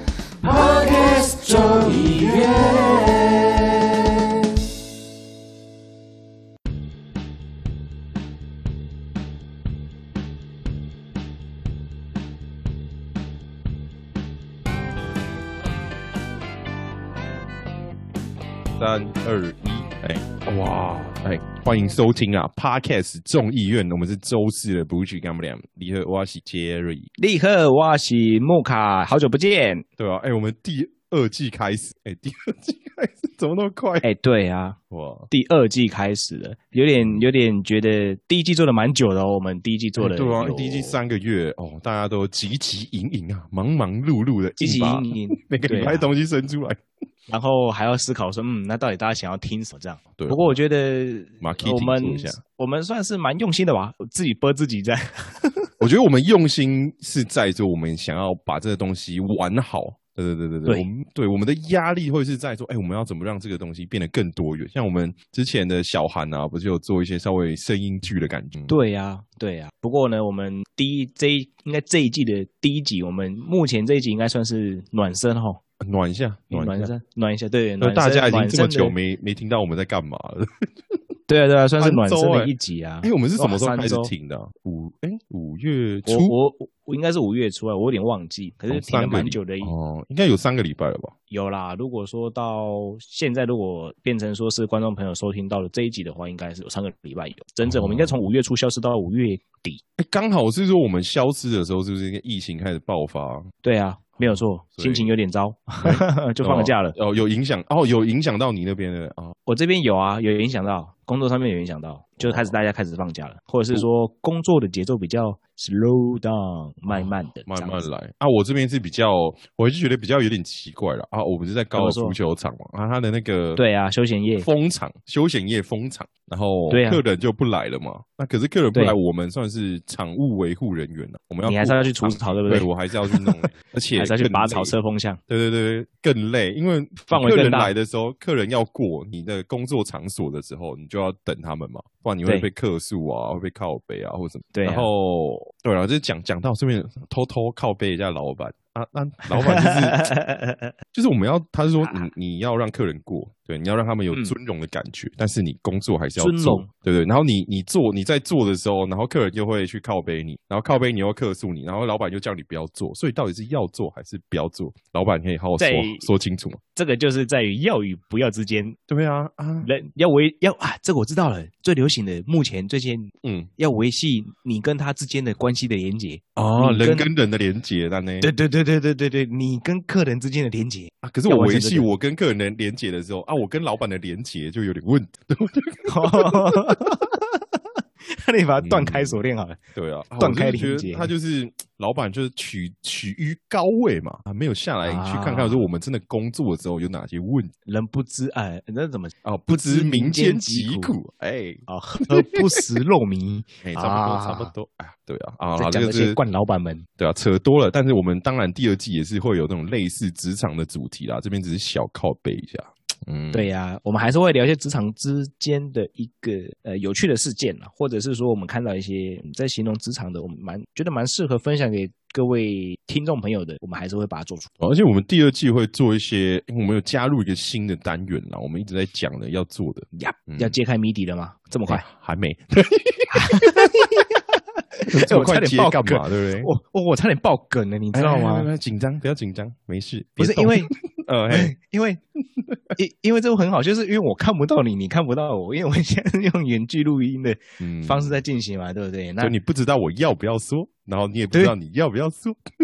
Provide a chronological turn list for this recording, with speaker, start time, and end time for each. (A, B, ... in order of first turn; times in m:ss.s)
0:00.4-0:03.5 A
0:18.8-0:27.1 B
0:27.2-0:29.9 C
0:30.0-0:34.1 B
0:34.0-0:34.8 C
0:34.9-0:35.3 B
0:35.3-0:41.0 C
0:37.0-0:37.2 B
0:40.0-0:46.8 B
0:44.6-0:46.1 C
0:47.3-0:55.7 C
0:50.2-0:50.6 B
0:51.4-0:52.4 B
0:55.8-1:08.8 B
1:08.7-1:15.6 C
1:15.8-1:16.9 B
1:16.5-1:19.0 C
1:17.8-1:21.0 B
1:21.3-1:24.1 C
1:21.8-1:26.3 B
1:26.1-1:29.7 C
1:28.7-1:31.1 B
1:31.3-1:39.8 C
1:37.6-1:38.2 B
1:40.0-1:43.5 B
1:43.6-1:47.0 C
1:44.2-1:45.1 B
1:45.8-1:49.4 B
1:49.5-1:57.8 C
1:52.2-1:52.6 B
1:56.9-2:03.6 B
2:01.7-2:02.2 C
2:03.6-2:04.5 C
2:04.4-2:14.7 B
2:06.7-2:07.0 C
2:11.4-2:15.2 C
2:15.3-2:30.0 B
2:17.1-2:17.7 C
2:24.5-2:24.9 C
2:29.3-2:30.7 C
2:30.9-2:46.6 B
2:31.8-2:32.1 C
2:36.2-2:36.7 C
2:45.6-2:46.1 C
2:46.8-2:48.8 C
2:48.9-2:49.7 B
2:49.6-2:57.1 C
2:53.2-2:53.5 B
2:56.4-2:58.3 B
2:58.2-3:01.9 C
3:01.0-3:06.8 B
3:05.9-3:07.4 C
3:08.1-3:09.6 C
3:08.6-3:09.2 B
3:09.8-3:17.5 B
3:10.2-3:11.1 C
3:14.8-3:15.7 C
3:17.7-3:21.0 C
3:19.2-3:21.6 B
3:21.7-3:24.5 C
3:23.6-3:26.2 B
3:25.6-3:26.8 C
3:27.0-3:33.5 B
3:33.3-3:44.5 C
3:44.6-3:50.6 B
3:50.0-3:51.8 C
3:51.7-3:53.9 B
3:53.1-3:58.5 C
3:54.9-3:56.5 B
3:57.9-4:01.5 B
4:00.2-4:00.7 C
4:01.3-4:02.0 C
4:02.4-4:02.7 B
4:02.8-4:09.3 C
4:07.6-4:08.2 B
4:09.2-4:12.4 B